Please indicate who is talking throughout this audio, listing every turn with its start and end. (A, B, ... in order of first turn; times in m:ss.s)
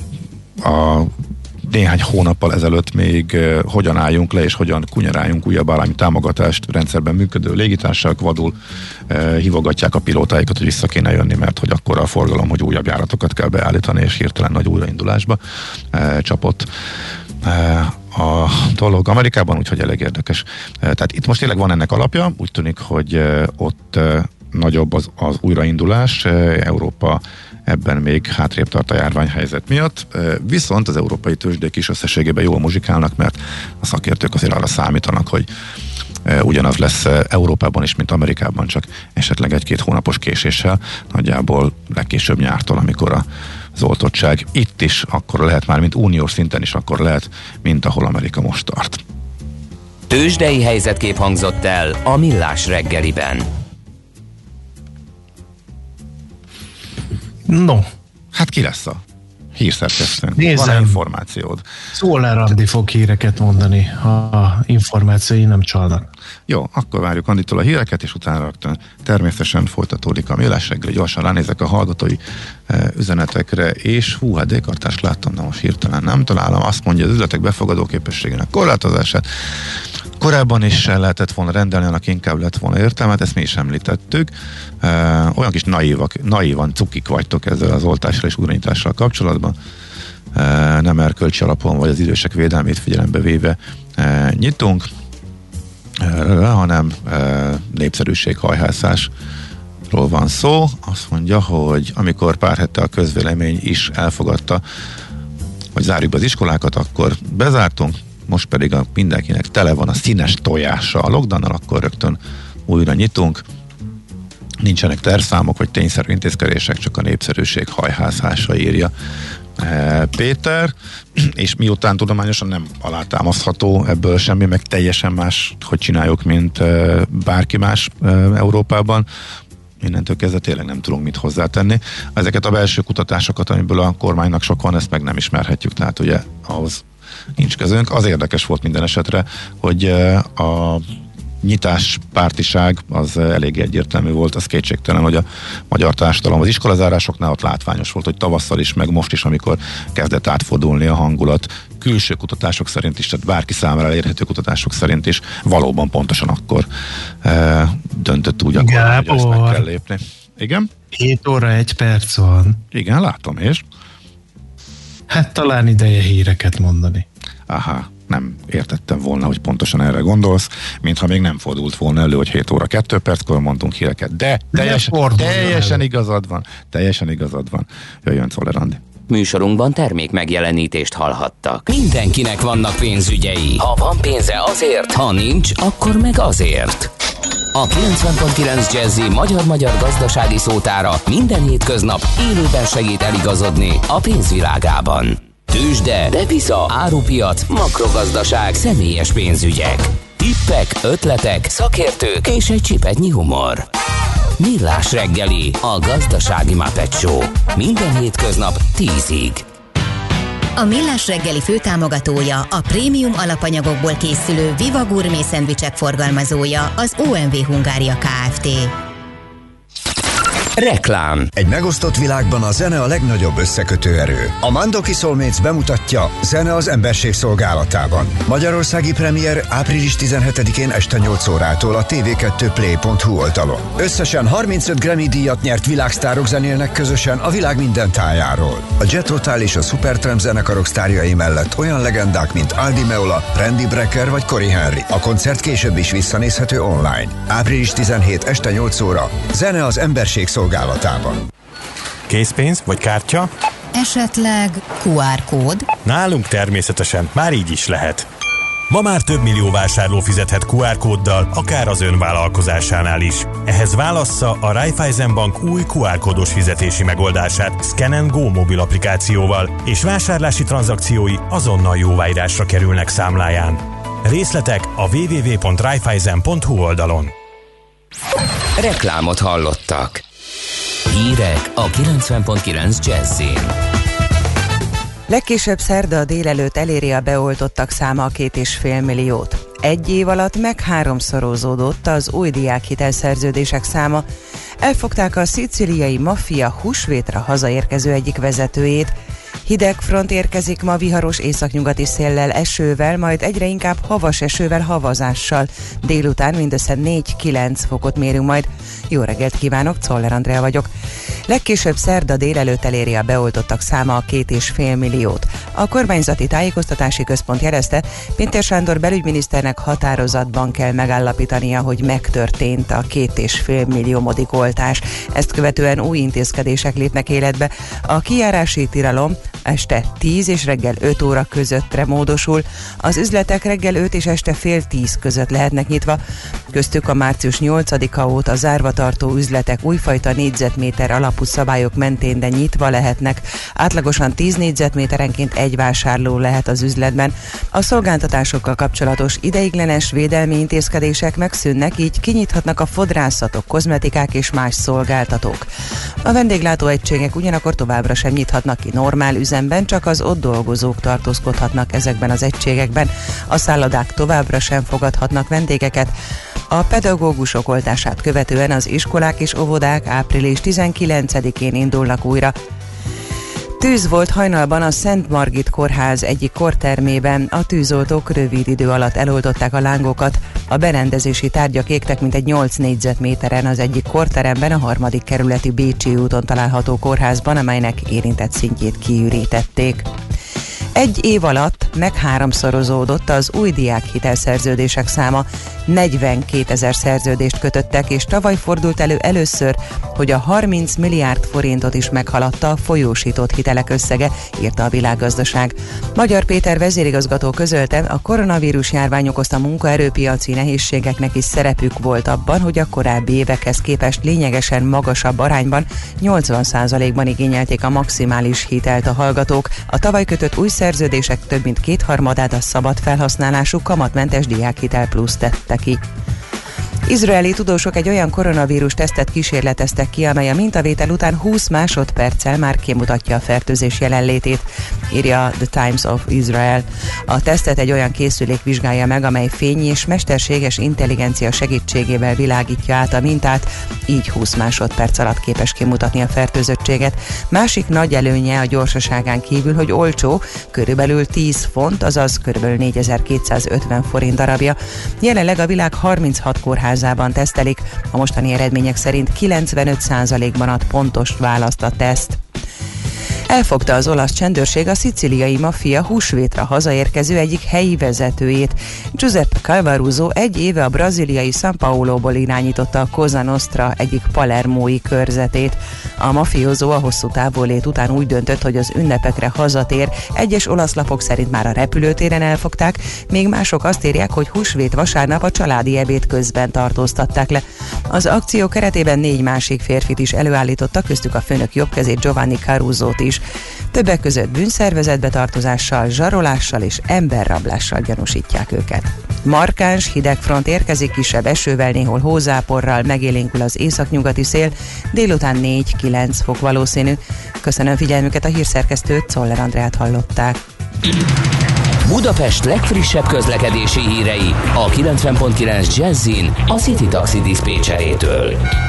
0:00.6-0:01.1 A
0:01.6-0:08.5 A
0:09.1-0:15.4 A
0:15.9-0:16.7 A
0:17.4-0:35.5 A
0:36.2-0:43.2 A
0:43.8-0:49.0 A
0:50.1-0:53.5 B
0:57.5-0:57.9 C
0:58.3-0:59.0 A
0:59.6-1:01.6 A
1:00.4-1:01.0 C
1:02.0-1:06.1 C
1:06.5-1:29.6 A
1:30.3-1:34.9 A
1:36.0-1:39.1 A
1:39.9-1:44.6 A
1:45.8-1:53.4 A
1:54.6-1:58.9 A
1:59.6-2:09.1 A
2:09.8-2:16.8 A
2:17.4-2:20.8 A
2:21.4-2:36.7 A
2:37.2-2:40.7 A
2:38.6-2:39.6 C
2:40.9-2:42.6 C
2:42.7-2:43.6 A
2:45.1-2:47.0 C
2:47.5-2:58.8 A
2:54.5-2:55.8 C
2:59.1-3:06.9 B
3:07.6-3:23.7 B
3:24.4-3:29.4 B
3:30.6-3:38.7 D
3:40.6-3:41.3 B
3:41.4-4:11.2 E
4:12.1-4:13.3 F
4:13.7-4:15.7 D
4:15.8-4:18.1 F
4:18.7-4:37.1 F
4:38.6-4:40.0 B
4:40.9-4:43.5 B
4:45.1-4:54.1 G
4:54.6-4:59.0 G
4:59.4-5:10.7 G
5:11.3-5:36.0 G
5:36.5-5:55.5 G
5:56.0-6:05.9 G
6:06.5-6:12.4 G
6:13.6-6:29.9 G
6:30.8-7:05.8 G
7:06.9-7:42.2 G
7:43.3-8:13.2 G
8:13.7-8:30.4 G
8:31.9-8:38.4 B